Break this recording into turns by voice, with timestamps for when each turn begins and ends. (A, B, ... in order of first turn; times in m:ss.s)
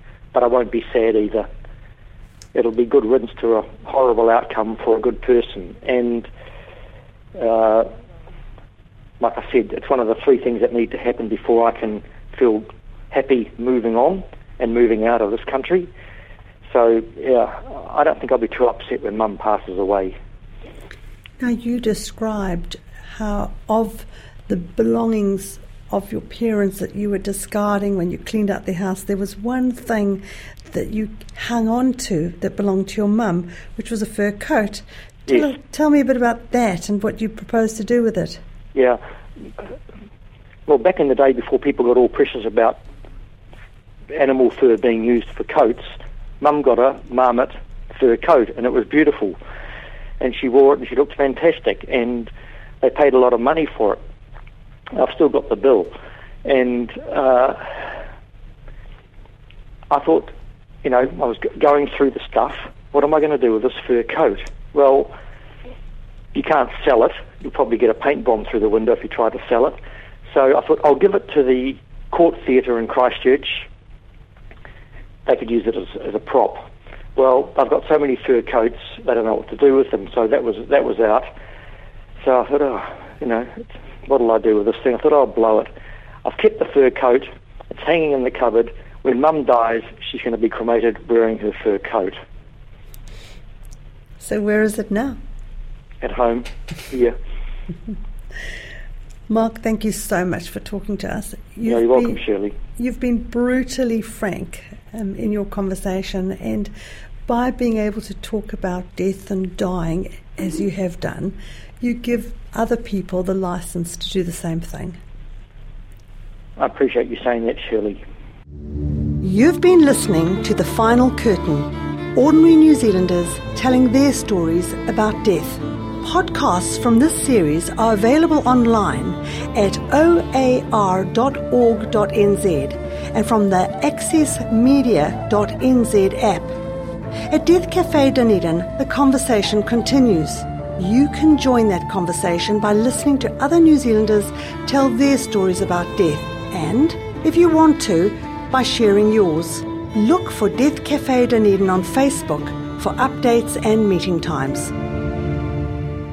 0:00.3-0:01.5 A
0:02.5-0:06.3 A
0:07.4-0:07.9 A
0:09.2-0:15.9 A
0:16.7-0:20.1 A
0:21.4-0:38.4 B
0:40.7-0:42.8 A
0:44.1-0:49.4 A
0:50.2-0:52.3 A
0:52.8-0:54.0 A
0:54.9-0:55.9 A
0:56.4-0:58.0 A
0:59.9-1:00.3 A
1:00.8-1:05.1 A
1:06.3-1:09.8 A
1:10.3-1:13.7 A
1:15.2-1:21.3 A
1:22.2-1:25.7 A
1:26.2-1:32.2 A
1:34.2-1:35.2 B
1:36.0-1:37.1 A
1:39.3-1:42.2 B
1:41.6-1:42.6 A
1:42.8-1:46.7 B
1:47.2-1:55.0 B
1:56.6-1:58.0 A
1:59.2-2:16.5 B
2:17.3-2:34.7 B